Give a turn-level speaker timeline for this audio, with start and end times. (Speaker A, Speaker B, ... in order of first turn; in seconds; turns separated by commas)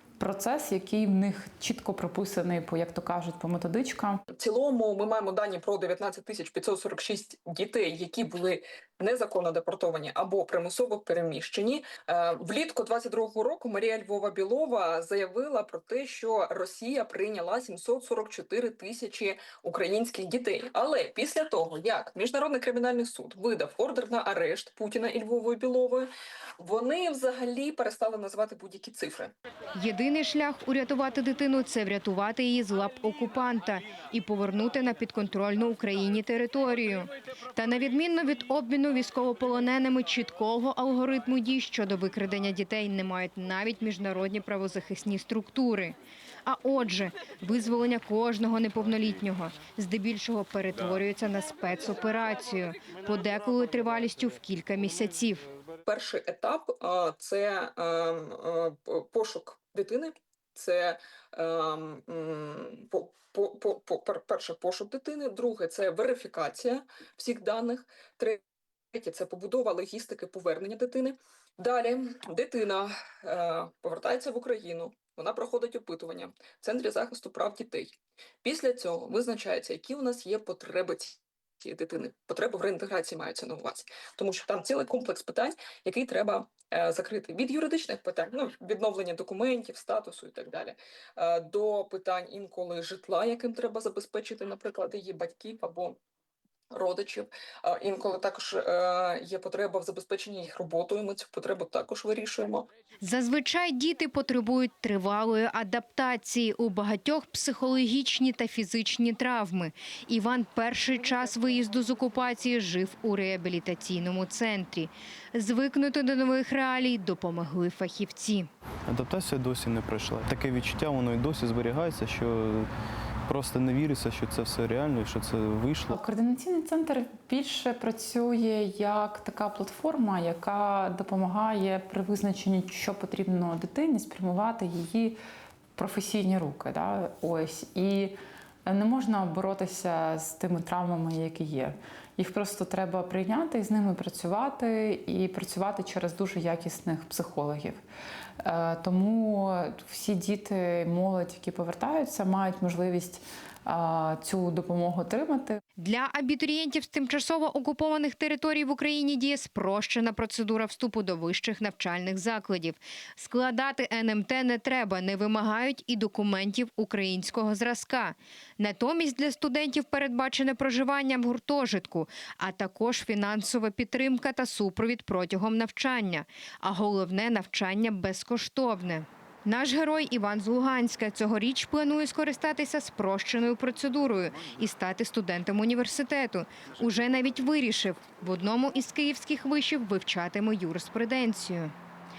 Speaker A: 0.2-4.2, Speaker B: 4.3-26.1, Speaker B: 26.6-29.3, Speaker C: 29.8-55.5, Speaker B: 55.9-68.4, Speaker B: 68.9-96.0, Speaker B: 96.7-102.7, Speaker C: 103.0-118.5, Speaker D: 118.9-122.7, Speaker D: 123.3-126.0, Speaker A: 125.9-135.2, Speaker A: 135.8-147.8, Speaker A: 148.4-155.6, Speaker C: 155.8-191.7